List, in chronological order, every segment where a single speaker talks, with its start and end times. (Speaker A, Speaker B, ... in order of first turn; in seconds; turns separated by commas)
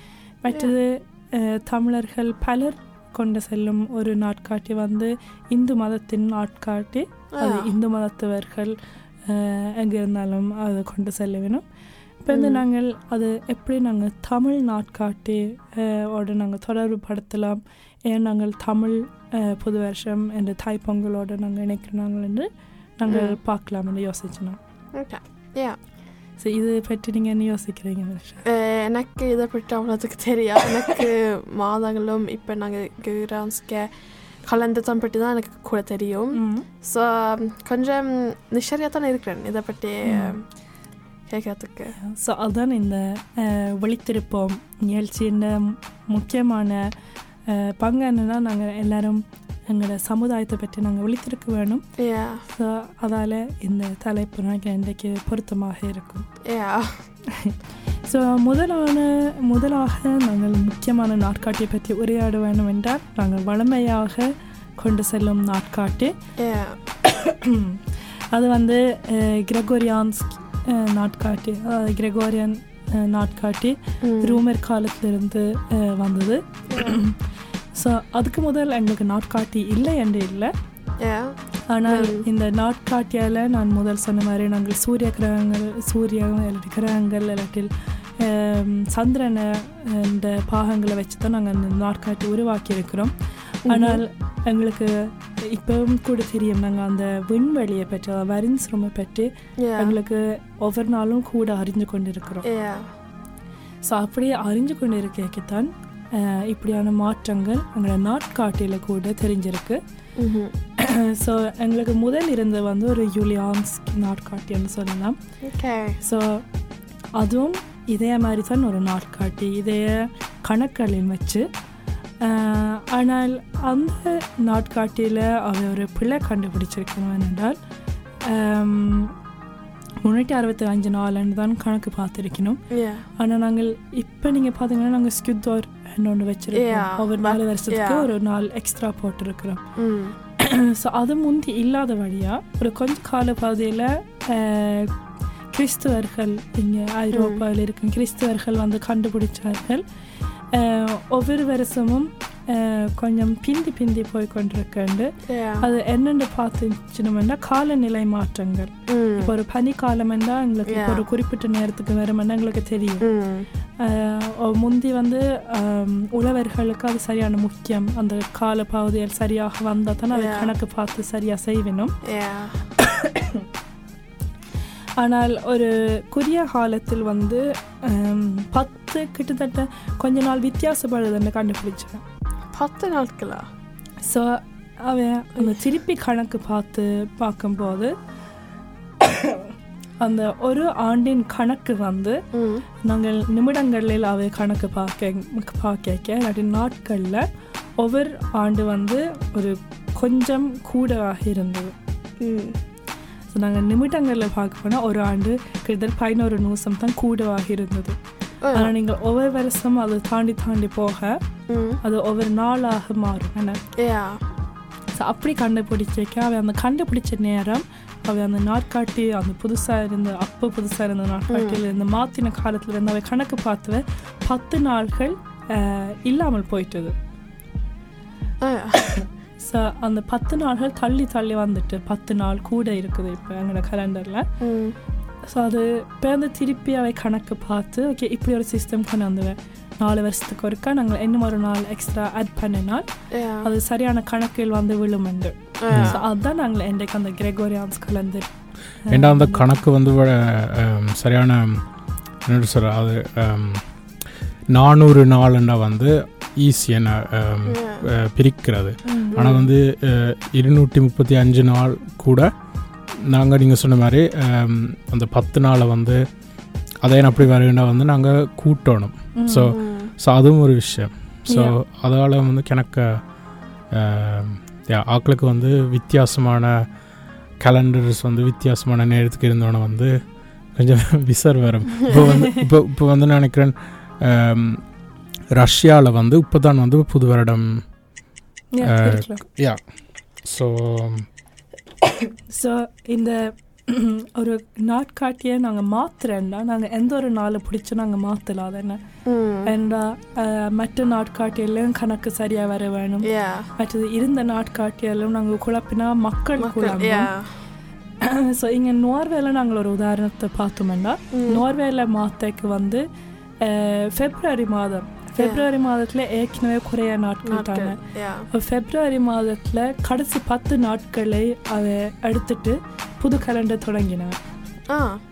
Speaker A: 0.4-8.7, Speaker B: 7.4-7.7, Speaker A: 9.3-11.6, Speaker A: 12.2-24.6, Speaker B: 12.3-12.6, Speaker B: 23.1-23.4, Speaker B: 24.9-25.8, Speaker A: 26.4-28.4, Speaker B: 28.5-40.5, Speaker A: 36.3-36.7, Speaker A: 40.1-40.3, Speaker B: 41.3-41.9, Speaker A: 42.0-46.8, Speaker A: 47.5-51.8, Speaker B: 52.0-52.4, Speaker A: 52.5-56.2, Speaker B: 56.5-57.0, Speaker A: 57.4-66.1, Speaker B: 66.4-66.8, Speaker A: 67.0-67.8, Speaker A: 68.3-77.2, Speaker B: 74.0-74.4, Speaker A: 77.7-80.5, Speaker B: 81.0-82.2, Speaker A: 81.7-93.1, Speaker B: 93.7-94.0, Speaker A: 93.7-102.5, Speaker B: 99.6-100.0, Speaker B: 102.5-102.9, Speaker A: 103.8-109.8, Speaker B: 110.2-110.5, Speaker A: 110.8-115.2, Speaker B: 115.4-116.0, Speaker A: 116.0-116.4, Speaker A: 117.2-121.5, Speaker A: 122.2-127.6, Speaker A: 128.2-129.1, Speaker A: 130.0-132.6, Speaker B: 132.7-133.0, Speaker A: 133.2-139.6, Speaker B: 136.5-138.1, Speaker B: 139.8-140.2, Speaker A: 140.4-144.9, Speaker A: 145.5-149.8, Speaker B: 147.1-147.4, Speaker A: 150.5-155.1, Speaker B: 155.3-155.7, Speaker A: 155.6-163.1, Speaker B: 158.9-159.3, Speaker B: 160.7-161.0, Speaker B: 163.0-163.5, Speaker A: 163.8-171.9, Speaker B: 170.1-170.5, Speaker B: 172.1-172.6, Speaker A: 172.8-173.4, Speaker A: 175.0-182.0, Speaker B: 182.5-183.4, Speaker A: 184.1-187.9, Speaker A: 189.0-192.2, Speaker B: 192.3-192.6, Speaker A: 192.8-197.2, Speaker A: 197.8-201.7, Speaker B: 202.2-202.6, Speaker A: 203.3-208.0, Speaker B: 208.4-208.7, Speaker A: 208.5-211.2, Speaker B: 211.5-211.8, Speaker A: 211.8-213.6, Speaker B: 213.8-214.2, Speaker A: 214.9-226.9, Speaker B: 221.3-221.6, Speaker B: 228.4-228.8, Speaker A: 228.9-234.3, Speaker B: 234.4-234.8, Speaker A: 235.3-242.8, Speaker B: 243.1-243.5, Speaker A: 243.4-248.3, Speaker B: 245.6-246.0, Speaker C: 245.7-246.0, Speaker A: 248.8-249.5, Speaker C: 248.9-253.9, Speaker C: 254.5-262.3, Speaker B: 257.5-257.9, Speaker A: 258.8-259.4, Speaker B: 259.1-259.4, Speaker C: 263.1-266.0, Speaker C: 266.8-276.8, Speaker A: 269.1-269.5, Speaker B: 269.5-269.9, Speaker A: 271.3-271.6, Speaker C: 277.4-284.8, Speaker A: 281.9-282.4, Speaker C: 285.3-287.8, Speaker A: 288.5-289.2, Speaker C: 288.6-291.1, Speaker A: 292.3-298.8, Speaker B: 299.1-299.5, Speaker A: 299.4-307.1, Speaker B: 303.0-303.5, Speaker B: 306.4-307.4, Speaker A: 308.0-312.8, Speaker B: 311.1-311.4, Speaker A: 313.4-324.2, Speaker B: 315.2-315.4, Speaker B: 317.3-318.3, Speaker B: 324.7-325.0